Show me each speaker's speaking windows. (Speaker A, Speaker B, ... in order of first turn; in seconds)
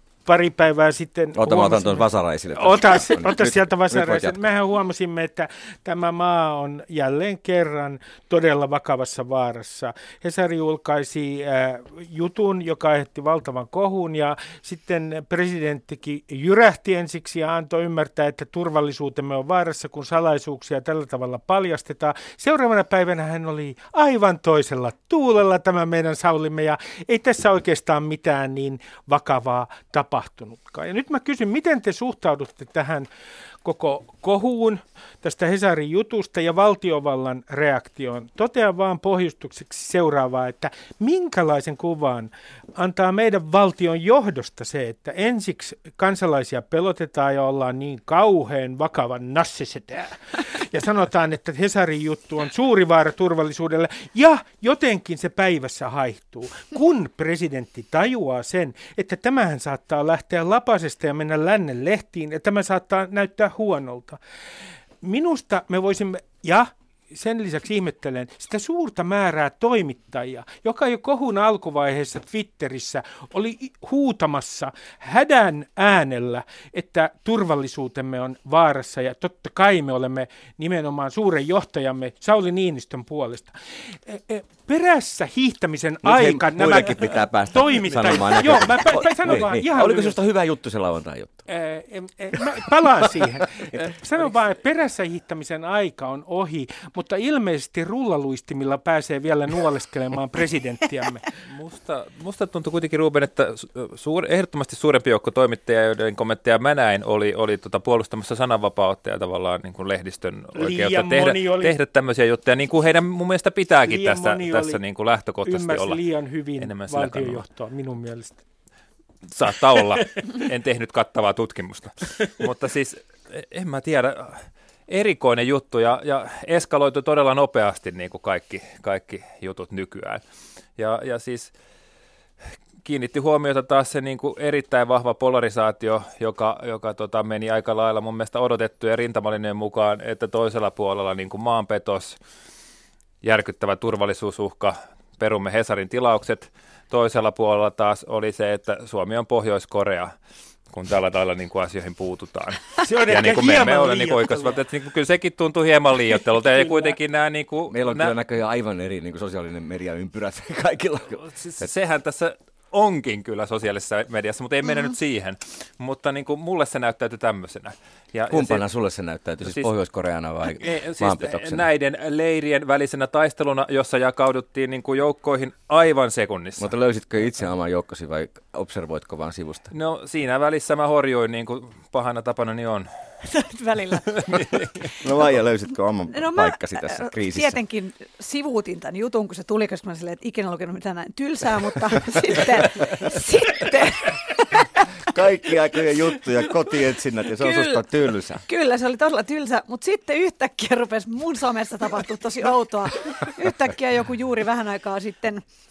Speaker A: 0.2-33.1, 33.6-64.2, 65.0-90.2, 91.5-101.3, 110.5-111.8, 113.8-114.8, 115.4-118.4, 152.8-154.6, 156.6-156.9
Speaker B: 1.3-4.4, 86.0-91.5, 157.7-161.7, 168.3-171.7, 176.6-179.7, 184.9-187.6, 195.0-198.4
Speaker C: 101.4-116.0, 116.6-117.4, 119.2-130.2, 130.8-131.5, 132.8-142.2, 143.2-150.1, 150.7-158.1, 161.3-168.6, 169.4-169.7, 170.6-176.7, 179.7-182.9, 184.2-184.7
Speaker D: 183.2-184.5, 186.1-194.9, 195.7-197.9, 198.4-205.4